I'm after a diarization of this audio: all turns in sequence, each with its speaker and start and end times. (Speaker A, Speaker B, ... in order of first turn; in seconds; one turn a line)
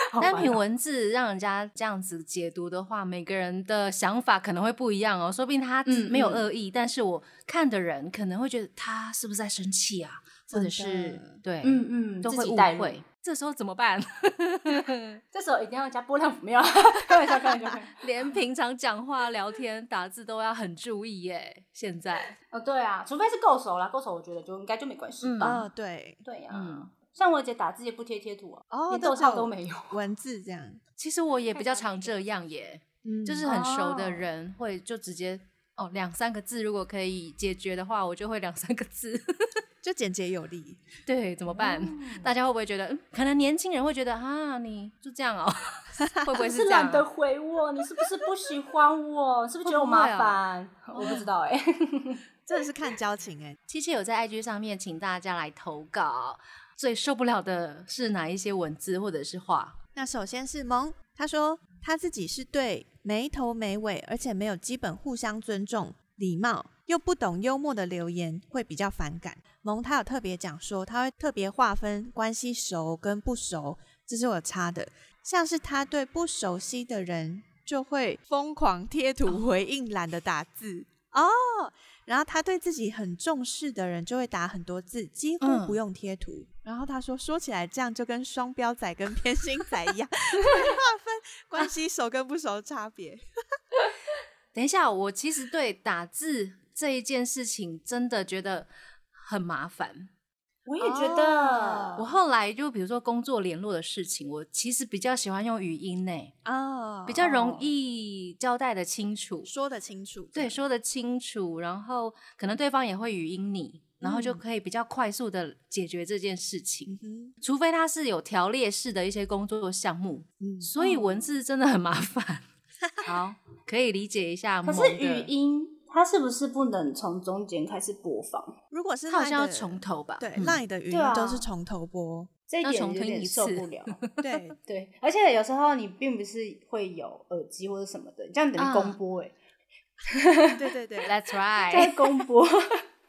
Speaker A: 0.1-0.6
Speaker B: 0.2-15.2
Speaker A: 5.8-6.5
Speaker C: 10.5-11.4
Speaker A: 11.6-13.0
Speaker A: 15.3-18.0
Speaker B: 18.0-22.3
Speaker A: 22.5-25.7
Speaker B: 25.2-25.6
Speaker C: 25.4-26.2
Speaker A: 26.2-30.0
Speaker B: 26.5-26.9
Speaker C: 28.7-30.8
Speaker B: 31.0-39.6
Speaker A: 31.5-31.8
Speaker C: 33.0-33.5
Speaker A: 33.4-34.3
Speaker C: 39.8-40.8
Speaker B: 41.0-47.1
Speaker A: 41.5-42.3
Speaker A: 46.4-52.2
Speaker B: 49.6-50.4
Speaker B: 50.9-51.3
Speaker C: 52.5-53.6
Speaker B: 53.7-59.8
Speaker C: 59.9-93.2
Speaker B: 85.4-85.8
Speaker B: 94.5-100.1
Speaker A: 100.7-102.0
Speaker C: 100.8-102.0
Speaker B: 102.0-106.3
Speaker C: 106.4-107.3
Speaker B: 107.1-109.5
Speaker A: 107.2-107.7
Speaker C: 109.4-110.6
Speaker B: 110.3-122.5
Speaker C: 114.0-114.4
Speaker C: 116.9-117.3
Speaker C: 120.4-120.7
Speaker A: 120.8-121.2
Speaker B: 123.0-125.3
Speaker A: 124.6-128.6
Speaker C: 128.7-132.3
Speaker B: 129.1-130.6
Speaker A: 130.9-131.5
Speaker A: 132.5-134.0
Speaker B: 132.6-134.2
Speaker C: 134.2-134.6
Speaker A: 134.7-139.3
Speaker B: 138.6-138.9
Speaker A: 140.1-140.6
Speaker C: 140.5-141.1
Speaker B: 141.1-141.9
Speaker A: 141.7-142.8